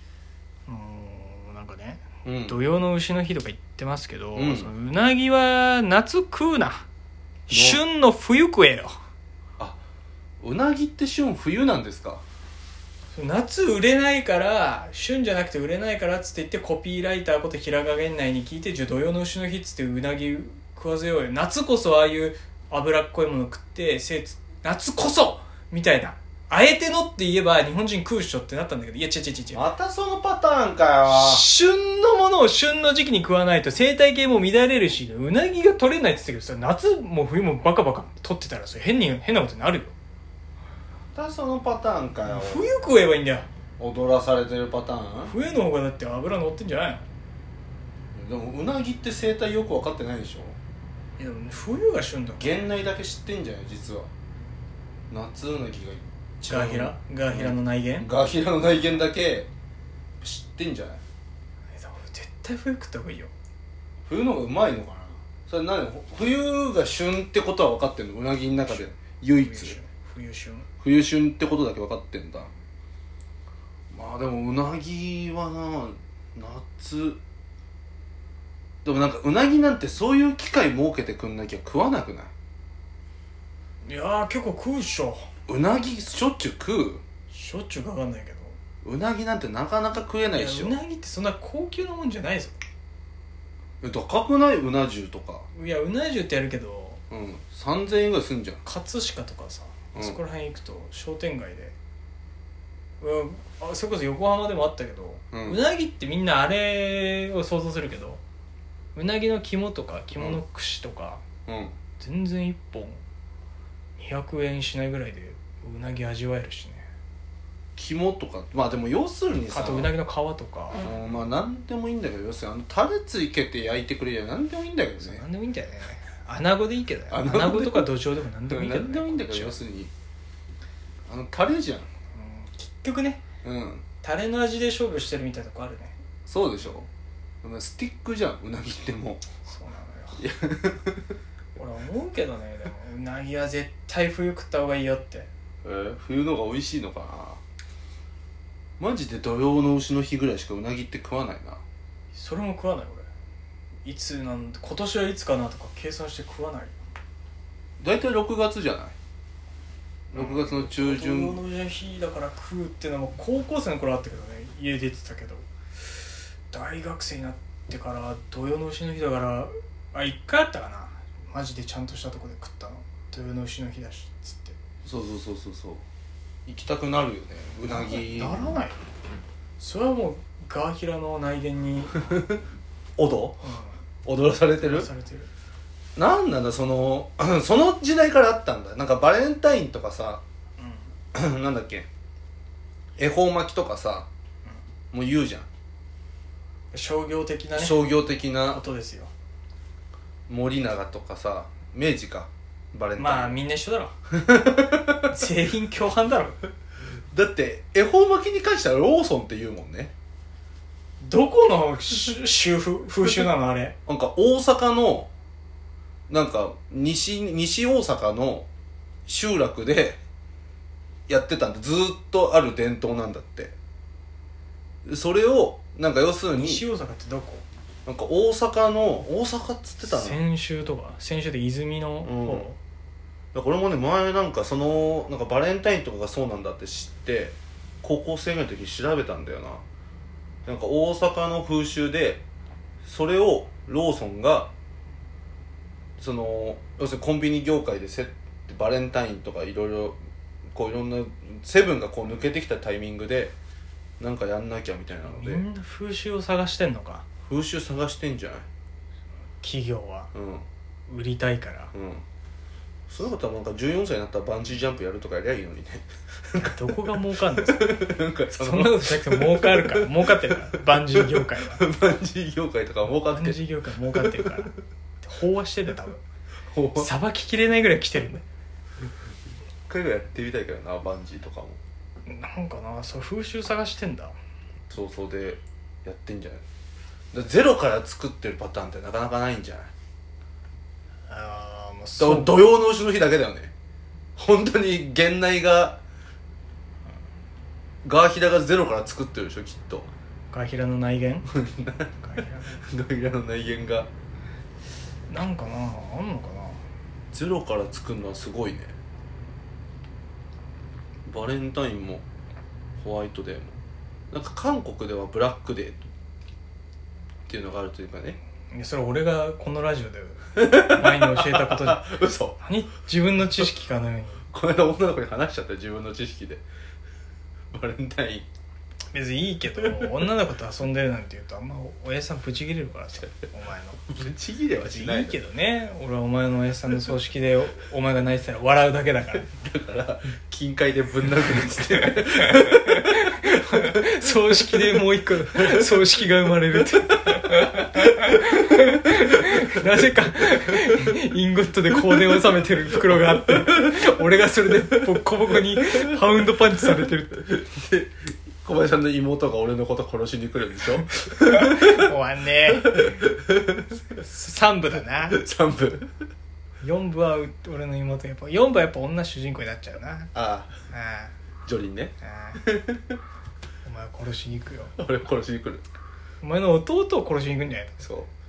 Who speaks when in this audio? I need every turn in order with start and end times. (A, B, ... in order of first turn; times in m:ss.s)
0:00.7-0:06.8 A
0:02.2-0:02.6 B
0:04.3-0:04.7 B
0:07.5-0:09.0 A
0:07.5-0:07.8 B
0:10.4-0:12.2 B
0:13.1-0:29.6 A
0:29.5-0:31.4 B
0:31.1-0:39.9 A
0:41.1-0:42.7 B
0:42.2-0:43.5 A
0:43.8-0:45.3 B
0:45.2-0:47.0 A
0:48.1-0:50.6 B
0:51.2-0:52.5 A
0:52.4-0:54.1 B
0:55.1-0:59.5 B
0:56.5-0:58.1 A
1:00.2-1:01.0 B
1:01.7-1:03.3 A
1:04.0-1:09.8 B
1:08.7-1:10.7 A
1:10.8-1:12.5 B
1:13.9-1:17.2 B
1:18.8-1:22.3 B
1:23.8-1:25.2 A
1:25.5-1:27.0 B
1:27.3-1:28.6 A
1:28.8-1:30.8 B
1:30.3-1:32.5 A
1:33.8-1:35.5 B
1:35.5-1:37.0 A
1:37.1-1:38.6 B
1:38.6-1:41.7 A
1:43.0-1:48.2 A
1:45.3-1:45.6 B
1:48.9-1:51.2 A
1:51.5-1:51.7 B
1:52.0-1:53.0 A
1:54.0-1:56.8 A
1:57.8-1:59.9 B
1:59.5-2:00.8 A
2:00.8-2:05.2 B
2:05.0-2:09.6 A
2:07.1-2:07.9 B
2:08.5-2:09.9 B
2:11.1-2:11.9 B
2:12.1-2:13.2 A
2:13.4-2:13.8 B
2:14.0-2:16.0 A
2:16.2-2:16.8 B
2:17.4-2:19.2 B
2:19.4-2:20.2 A
2:20.2-2:21.1 B
2:21.6-2:25.3 A
2:25.6-2:27.4 B
2:28.8-2:31.6 B
2:32.1-2:33.1 A
2:33.8-2:36.8 A
2:37.8-2:38.9 B
2:40.1-2:41.4 B
2:40.1-2:45.4 A
2:46.5-2:54.6 A
2:54.8-2:55.8 B
2:56.5-2:58.5 B
2:57.7-2:58.8 A
2:59.6-3:02.0 A
3:02.0-3:02.4 B
3:03.0-3:03.5 B
3:03.4-3:03.8 A
3:04.0-3:04.9 B
3:04.6-3:05.3 A
3:06.0-3:10.2 B
3:10.6-3:10.8 A
3:11.1-3:11.9 B
3:13.0-3:14.1 B
3:14.9-3:15.5 B
3:16.7-3:17.9 A
3:17.5-3:18.6 B
3:18.5-3:19.1 A
3:20.3-3:23.4 B
3:23.0-3:23.9 A
3:24.1-3:25.0 B
3:25.1-3:26.4 A
3:27.1-3:29.9 B
3:31.0-3:33.8 A
3:33.9-3:35.1 B
3:36.1-3:38.5 B
3:39.0-3:40.0 B
3:41.1-3:43.5 B
3:44.8-3:46.6 B
3:46.4-3:47.4 A
3:47.8-3:50.2 B
3:49.8-3:52.6 A
3:52.0-3:52.5 B
3:53.3-3:59.6 B
4:00.4-4:02.2 B
4:02.8-4:04.5 B
4:06.0-4:10.0 B
4:10.5-4:13.3 B
4:14.0-4:15.4 B
4:15.0-4:17.0 A
4:17.2-4:18.5 B
4:19.4-4:20.1 A
4:20.1-4:20.5 B
4:20.9-4:21.7 A
4:21.7-4:22.0 B
4:22.9-4:26.8 B
4:26.4-4:27.7 A
4:27.5-4:29.9 B
4:28.4-4:31.6 A
4:31.4-4:34.4 B
4:33.1-4:36.0 A
4:36.5-4:36.9 B
4:36.8-4:38.2 A
4:39.7-4:41.6 B
4:42.0-4:44.2 A
4:44.7-4:46.4 B
4:47.1-4:49.7 B
4:51.1-4:52.4 A
4:52.0-4:53.5 B
4:54.2-4:55.8 B
4:57.8-4:59.9 B
5:00.3-5:01.3 A
5:01.3-5:02.0 B
5:02.0-5:02.6 A
5:02.6-5:03.9 B
5:05.1-5:06.6 A
5:07.1-5:08.7 B
5:11.0-5:12.0 B
5:12.8-5:13.6 B
5:14.1-5:15.8 B
5:17.3-5:18.2 B
5:18.5-5:21.9 A
5:20.4-5:22.4 B
5:22.4-5:24.2 A
5:24.3-5:26.4 B
5:27.5-5:28.3 B
5:28.9-5:33.8 A
5:33.8-5:35.2 B
5:34.6-5:39.3 A
5:39.3-5:43.2 B
5:41.6-5:57.2 A
5:57.2-6:01.8 B
6:01.2-6:02.8 A
6:02.5-6:03.8 B
6:03.9-6:05.2 A
6:05.1-6:05.9 B
6:06.6-6:10.1 A
6:10.1-6:10.5 B
6:10.7-6:11.1 A
6:11.4-6:13.0 B
6:12.0-6:12.4 A
6:13.6-6:14.7 A
6:14.8-6:15.6 B
6:16.2-6:17.8 A
6:17.8-6:18.1 B